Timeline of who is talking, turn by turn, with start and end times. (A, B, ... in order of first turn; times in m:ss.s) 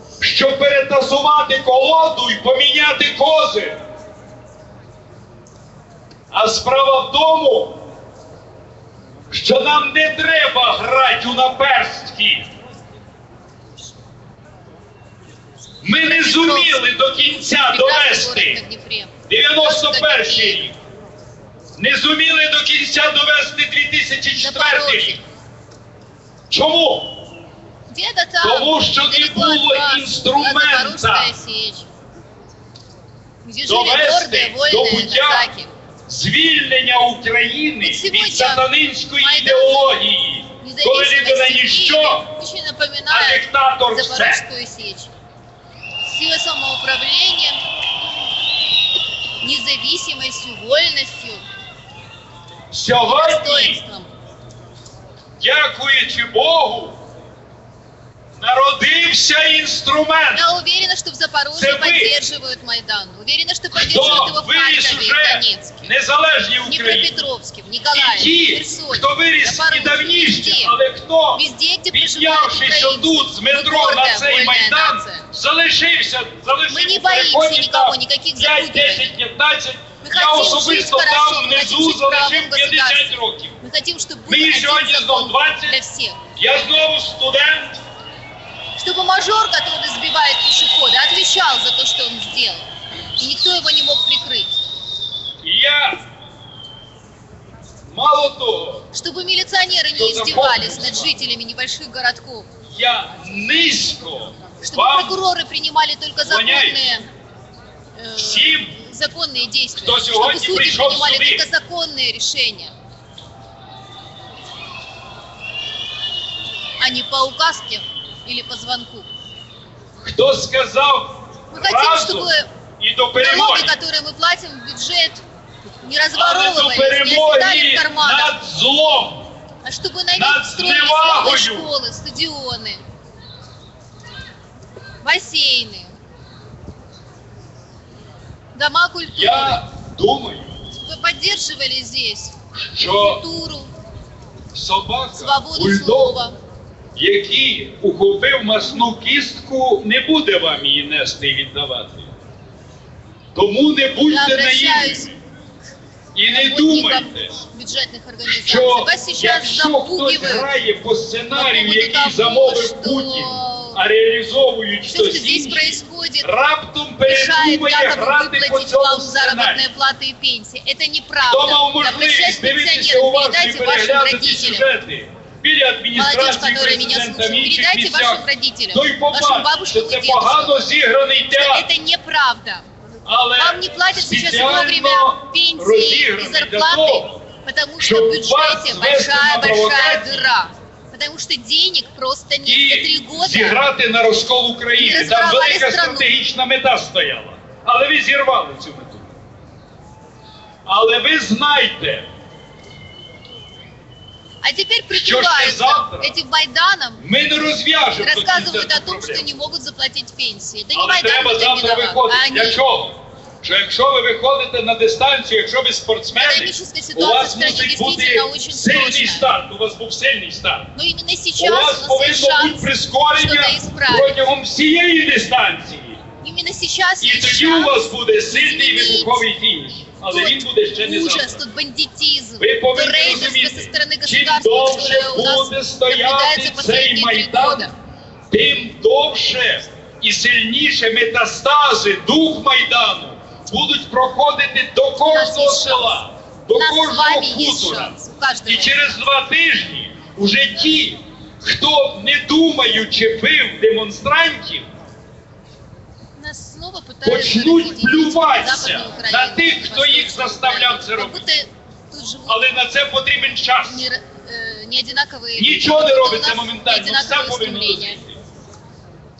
0:00.2-0:03.8 A
0:06.3-0:07.8 A
0:09.3-0:12.5 A
0:15.8-0:18.6 A
0:16.1-0:20.6 B
0:19.3-0:20.8 A
0:21.8-0:25.2 A
0:24.4-0:25.2 B
0:26.5-0:27.2 A
0:27.9-0:31.9 B
0:28.4-0:31.3 A
0:33.4-0:35.7 B
0:33.6-0:35.5 A
0:36.1-0:42.3 A
0:37.8-0:38.7 B
0:39.2-0:40.0 B
0:40.6-0:45.1 B
0:43.1-0:44.4 A
0:46.0-0:47.6 B
0:49.4-0:51.4 B
0:52.7-0:53.8 A
0:53.0-0:54.1 B
0:55.4-0:57.0 A
0:58.4-1:00.4 A
1:00.3-1:05.9 B
1:01.6-1:02.2 A
1:03.7-1:07.1 A
1:06.7-1:10.8 B
1:07.9-1:23.6 A
1:11.3-1:15.2 B
1:16.7-1:19.1 B
1:20.0-1:26.2 B
1:24.3-1:25.8 A
1:26.4-1:27.8 A
1:28.8-1:34.6 B
1:35.4-1:36.0 A
1:37.9-1:38.9 A
1:38.9-1:42.5 B
1:39.9-1:41.1 A
1:42.7-1:45.2 A
1:44.6-1:47.1 B
1:46.2-1:46.8 A
1:48.0-1:52.7 B
1:48.2-1:48.7 A
1:49.8-1:51.4 A
1:56.8-1:59.1 B
2:00.0-2:03.7 A
2:01.5-2:02.5 B
2:03.2-2:05.2 B
2:05.8-2:08.3 B
2:06.1-2:09.3 A
2:09.6-2:12.8 B
2:10.1-2:11.7 A
2:15.0-2:15.9 B
2:18.5-2:19.6 B
2:19.2-2:20.6 A
2:20.7-2:23.7 B
2:22.5-2:23.2 A
2:24.5-2:26.2 A
2:25.2-2:26.3 B
2:26.9-2:32.1 A
2:33.3-2:35.2 A
2:34.1-2:35.1 B
2:36.1-2:37.4 A
2:36.3-2:40.5 B
2:38.2-2:49.6 A
2:41.3-2:43.8 B
2:44.9-2:46.3 B
2:47.0-2:54.7 B
2:51.2-3:01.6 A
2:55.9-3:00.7 B
3:01.3-3:02.7 B
3:03.0-3:07.2 A
3:03.4-3:13.6 B
3:07.8-3:10.3 A
3:12.4-3:19.1 A
3:14.8-3:16.1 B
3:20.6-3:22.1 A
3:24.4-3:27.0 B
3:24.9-3:26.1 A
3:27.0-3:29.4 A
3:28.0-3:32.6 B
3:30.7-3:40.7 A
3:36.1-3:39.3 B
3:40.7-3:44.1 B
3:41.4-3:46.0 A
3:46.2-3:49.2 B
3:47.0-3:51.4 A
3:50.1-3:57.7 B
3:52.4-3:57.7 A
3:58.3-4:07.9 A
4:05.0-4:06.0 B
4:06.5-4:09.0 B
4:08.4-4:14.7 A
4:16.2-4:22.4 B
4:17.0-4:21.2 A
4:22.3-4:23.9 A
4:23.6-4:28.0 B
4:25.4-4:28.2 A